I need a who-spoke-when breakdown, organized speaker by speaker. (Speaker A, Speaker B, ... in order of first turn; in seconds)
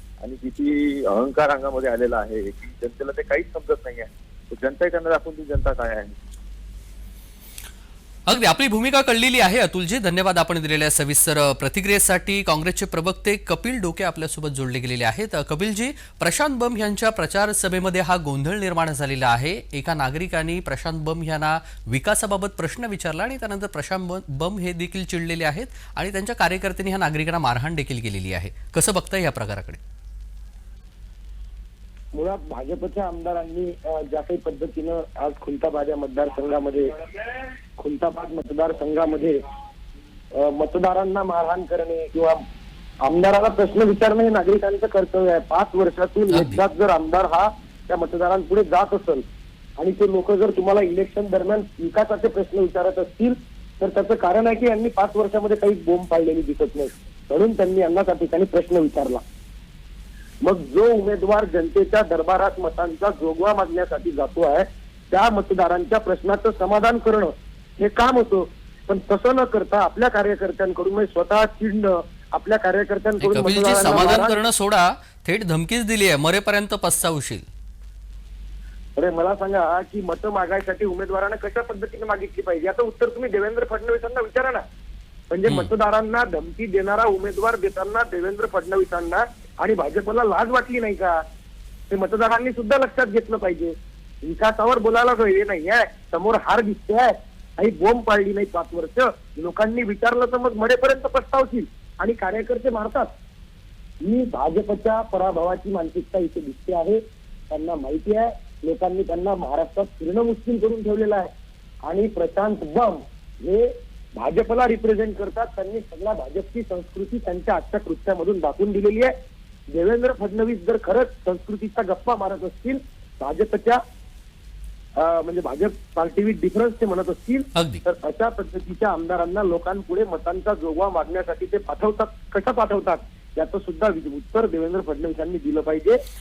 Speaker A: 0.2-6.0
Speaker B: 8.3-29.8, 46.3-46.6, 73.2-77.5, 85.5-85.7, 127.5-127.8
Speaker C: 32.1-36.9, 37.8-39.4, 40.3-42.4, 43.0-49.2, 49.8-59.2, 60.4-74.3, 79.0-84.6, 85.3-91.2, 91.9-103.1, 104.0-111.3, 111.8-119.1, 119.7-123.8, 125.0-136.0